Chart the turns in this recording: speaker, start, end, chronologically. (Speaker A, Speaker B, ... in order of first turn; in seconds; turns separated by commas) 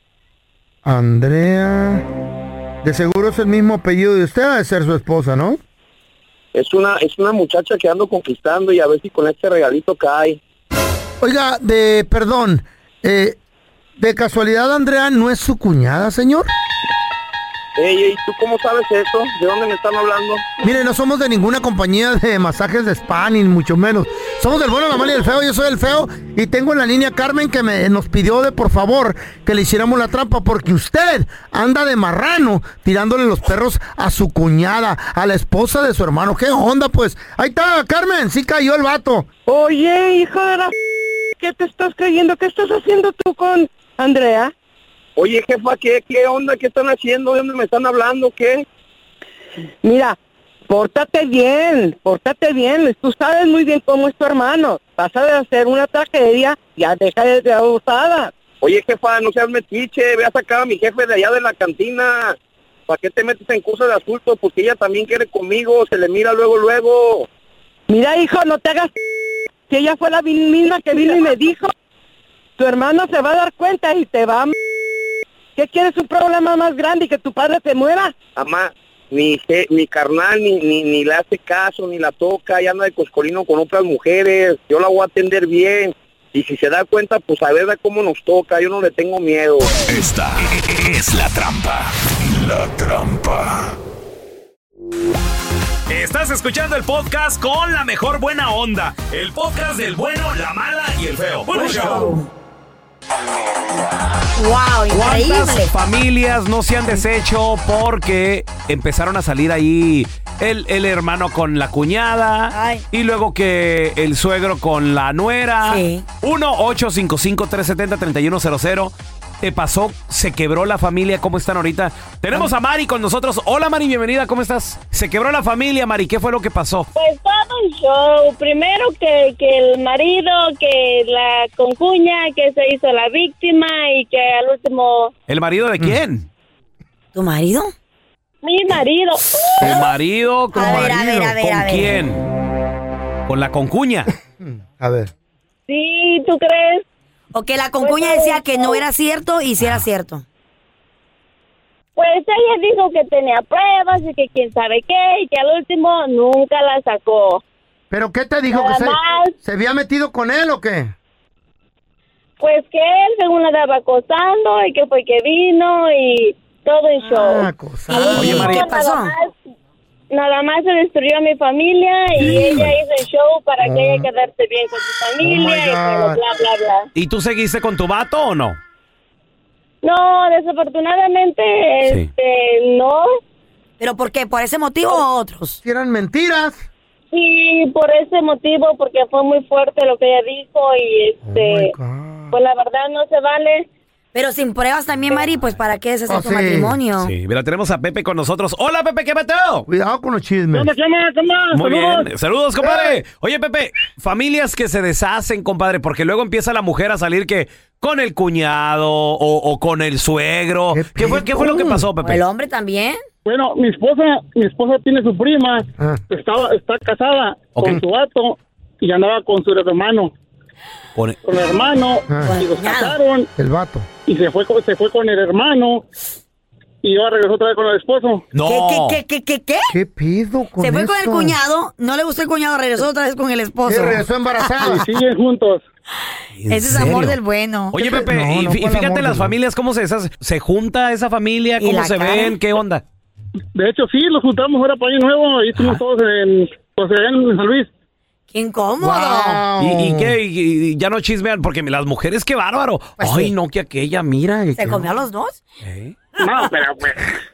Speaker A: 0.8-2.1, Speaker A: 2.8-5.6, Speaker B: 6.5-10.4, Speaker A: 11.2-13.4, Speaker A: 14.0-16.5, Speaker B: 17.8-20.5, Speaker A: 20.6-39.3, Speaker C: 39.5-40.7, Speaker C: 41.4-44.5, Speaker B: 45.2-48.6, Speaker C: 49.8-50.2, Speaker C: 50.7-58.3, Speaker B: 58.6-62.4, Speaker B: 62.9-67.3, Speaker C: 67.9-68.9, Speaker C: 69.7-71.7, Speaker C: 72.6-74.5, Speaker C: 75.6-78.2, Speaker B: 78.3-89.7, Speaker D: 89.9-93.7, Speaker E: 95.9-102.1, Speaker F: 101.5-102.3, Speaker F: 104.3-105.7, Speaker E: 104.9-126.9, Speaker F: 112.5-112.8, Speaker F: 115.6-116.1, Speaker G: 127.0-135.1, Speaker E: 135.3-136.3, Speaker F: 137.2-137.7, Speaker G: 138.4-139.8, Speaker A: 139.6-139.8, Speaker E: 139.6-142.2, Speaker A: 140.5-141.4, Speaker F: 140.5-142.0, Speaker E: 143.3-144.1, Speaker A: 144.4-145.1, Speaker G: 145.7-146.8, Speaker F: 147.3-150.2, Speaker G: 147.8-148.8, Speaker G: 152.0-157.4, Speaker A: 157.9-160.9, Speaker G: 158.5-159.3, Speaker G: 162.4-167.5, Speaker A: 167.0-168.6, Speaker F: 167.9-169.1, Speaker E: 168.1-168.7, Speaker G: 168.4-169.3, Speaker G: 170.1-176.9, Speaker E: 172.2-172.7, Speaker A: 173.6-174.1, Speaker A: 175.2-176.2, Speaker E: 176.9-178.6, Speaker G: 179.8-183.2, Speaker E: 181.8-182.1, Speaker F: 183.8-185.6, Speaker A: 185.6-186.7, Speaker G: 187.1-191.7, Speaker A: 191.2-192.3, Speaker G: 192.3-193.7, Speaker F: 194.1-197.1, Speaker A: 196.1-196.8, Speaker E: 197.0-199.7, Speaker A: 199.7-200.7, Speaker H: 200.5-202.1, Speaker E: 201.5-212.2, Speaker A: 210.7-211.9, Speaker F: 212.0-213.0, Speaker H: 213.2-220.1, Speaker E: 217.6-217.8, Speaker H: 221.2-223.3, Speaker A: 222.1-222.4, Speaker F: 222.2-223.0, Speaker A: 223.4-223.9, Speaker H: 224.1-225.8, Speaker H: 226.8-228.3, Speaker E: 228.3-229.0, Speaker F: 228.4-229.7, Speaker A: 229.7-231.4, Speaker F: 230.6-234.8, Speaker A: 233.7-234.8, Speaker H: 234.7-235.7, Speaker E: 236.4-237.2, Speaker F: 236.5-237.8, Speaker E: 237.7-242.8, Speaker A: 237.8-239.3, Speaker F: 241.6-242.4, Speaker H: 243.6-247.7, Speaker E: 245.6-245.8, Speaker F: 248.3-249.4, Speaker A: 248.8-250.2, Speaker E: 249.6-254.9, Speaker F: 253.0-253.3, Speaker F: 254.6-255.4, Speaker E: 255.6-256.0, Speaker H: 256.2-257.1